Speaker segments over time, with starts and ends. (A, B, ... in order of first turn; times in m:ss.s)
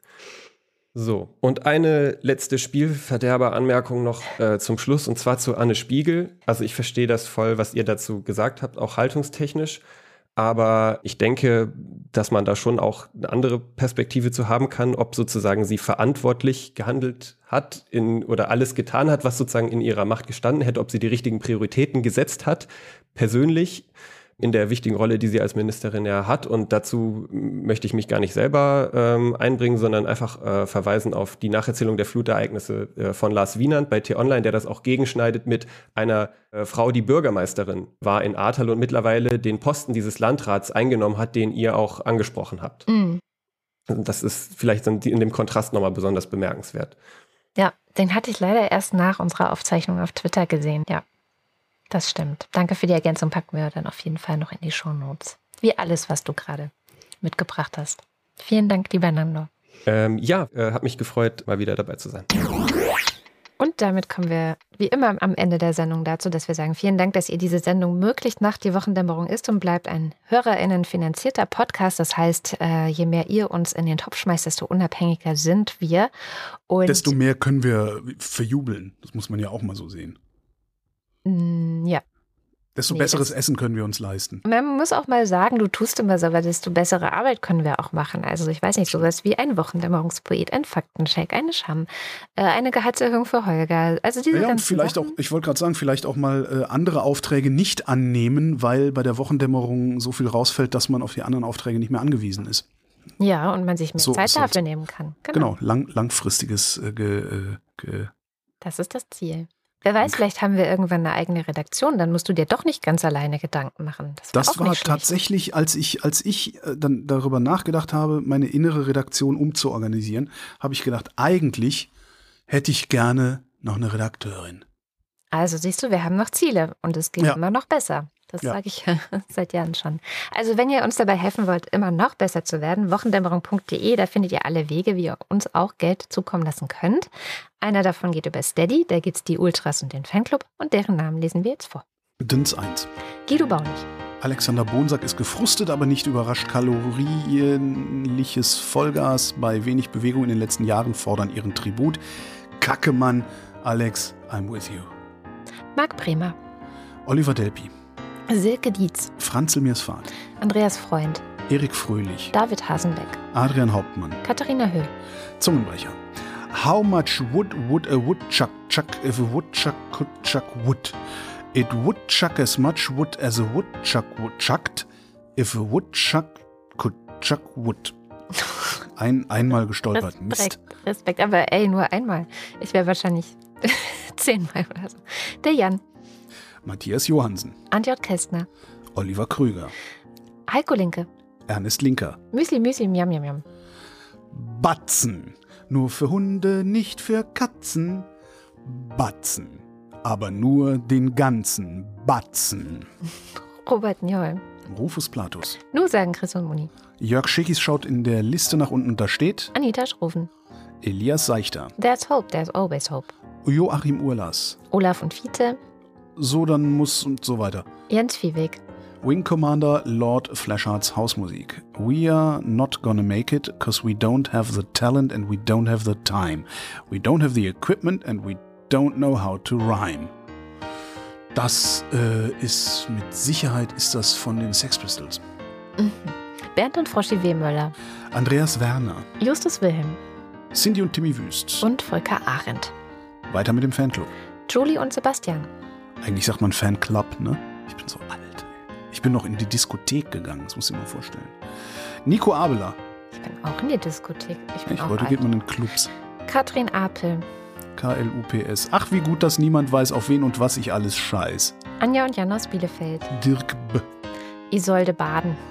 0:00.9-0:09.8 A
0:10.4-0:23.9 A
0:24.4-0:42.8 A
0:42.9-0:43.2 B
0:43.9-0:46.9 A
0:47.6-0:51.0 B
0:51.9-0:56.7 B
0:57.2-0:59.5 B
0:59.9-1:02.4 A
1:03.6-1:16.1 B
1:16.7-1:17.1 B
1:16.8-1:20.2 C
1:21.2-1:22.0 B
1:22.8-1:24.4 C
1:22.9-1:23.3 B
1:24.4-1:35.1 B
1:34.3-1:42.6 C
1:43.2-1:45.5 B
1:44.0-1:44.6 C
1:45.3-1:48.1 C
1:48.6-1:55.2 B
1:54.3-2:01.9 C
2:02.5-2:04.6 C
2:05.3-2:17.1 B
2:17.6-2:21.8 B
2:22.2-2:22.9 C
2:23.2-2:23.9 B
2:24.2-2:32.0 C
2:32.6-2:34.9 C
2:35.7-2:36.4 B
2:37.0-2:37.7 C
2:38.3-2:39.1 B
2:39.2-2:40.1 C
2:40.4-2:41.2 B
2:41.5-2:42.3 C
2:42.3-2:43.2 B
2:43.3-2:44.2 C
2:44.2-2:44.9 B
2:45.4-2:51.0 C
2:51.5-2:58.0 C
2:58.9-3:00.6 C
2:59.9-3:05.8 B
3:06.6-3:07.6 C
3:07.7-3:08.5 B
3:08.9-3:09.7 C
3:10.5-3:11.1 B
3:11.5-3:12.2 C
3:12.3-3:13.4 B
3:14.3-3:18.1 C
3:18.6-3:22.9 C
3:23.6-3:24.4 B
3:24.6-3:25.6 C
3:25.7-3:26.7 B
3:27.0-3:29.5 C
3:29.5-3:30.3 B
3:30.8-3:31.7 C
3:31.8-3:33.1 B
3:33.4-3:34.6 C
3:34.7-3:35.6 B
3:36.2-3:37.7 C
3:37.9-3:38.6 B
3:39.0-3:50.1 C
3:51.3-3:55.2 C
3:55.8-3:57.7 B
3:58.1-3:59.1 C
3:59.2-4:00.0 B
4:00.5-4:01.7 C
4:01.6-4:02.7 B
4:03.3-4:04.1 C
4:04.5-4:05.5 B
4:06.0-4:11.4 C
4:12.0-4:12.8 C
4:13.1-4:15.2 B
4:14.6-4:15.9 C
4:16.2-4:17.2 B
4:17.8-4:21.6 C
4:21.8-4:23.1 B
4:23.1-4:23.9 C
4:24.5-4:25.4 B